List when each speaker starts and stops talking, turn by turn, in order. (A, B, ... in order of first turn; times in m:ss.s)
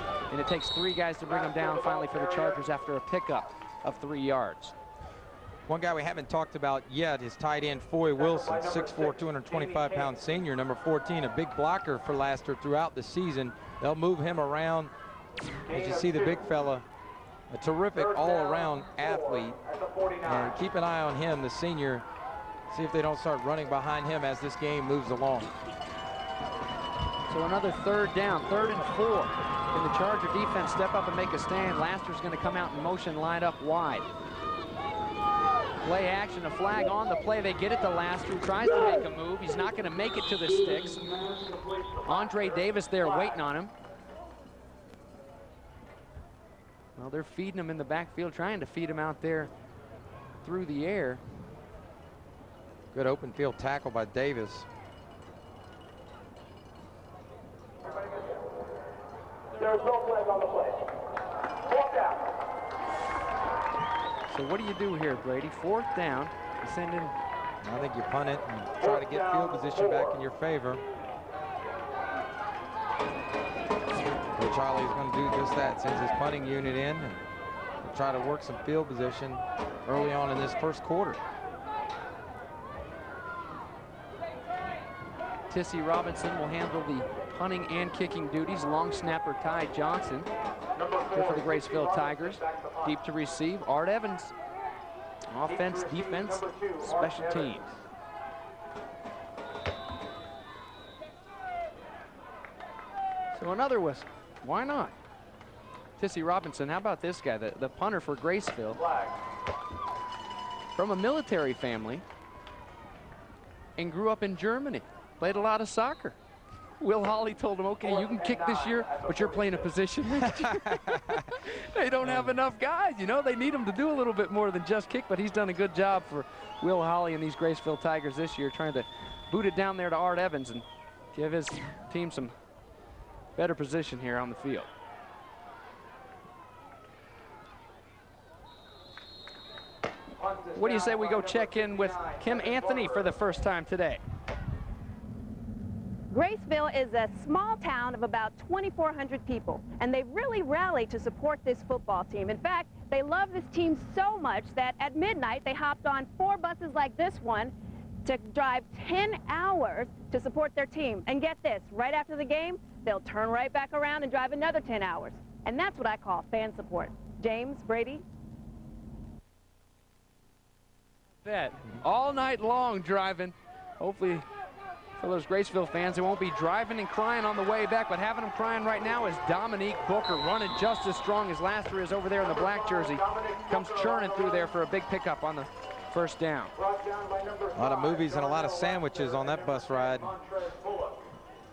0:00.3-0:04.7 A
0:01.2-0:02.6 B
0:05.7-0:14.9 C
0:08.2-0:10.2 B
0:15.6-0:16.5 B
0:15.7-0:16.8 C
0:17.5-0:19.6 C
0:17.9-0:20.6 B
0:20.2-0:22.0 C
0:22.7-0:25.5 C
0:27.3-0:34.1 A
0:35.8-0:41.0 A
0:41.0-0:43.4 B
0:42.0-0:43.7 A
0:47.0-0:49.5 A
0:50.4-0:51.2 A
0:52.9-0:54.7 C
0:57.8-0:58.4 B
0:59.5-1:00.9 B
1:01.6-1:02.4 B
1:04.3-1:07.1 A
1:07.6-1:10.8 C
1:08.8-1:10.2 B
1:14.3-1:17.2 C
1:17.8-1:21.2 C
1:25.5-1:30.3 A
1:30.7-1:33.0 B
1:31.1-1:34.3 A
1:35.3-1:37.8 A
1:35.4-1:37.8 B
1:43.3-1:45.0 A
1:46.0-1:48.8 A
1:48.7-1:49.2 B
1:50.8-1:52.0 A
1:53.8-1:56.2 A
1:56.8-2:12.3 A
1:57.8-1:59.7 B
2:00.3-2:01.3 C
2:02.0-2:02.4 C
2:13.4-2:14.7 A
2:20.2-2:23.1 B
2:20.6-2:24.0 A
2:26.1-2:37.5 D
2:38.0-2:48.0 D
2:51.2-2:54.2 A
2:55.0-3:06.5 A
3:02.2-3:04.5 B
3:06.6-3:11.1 B
3:07.5-3:10.1 C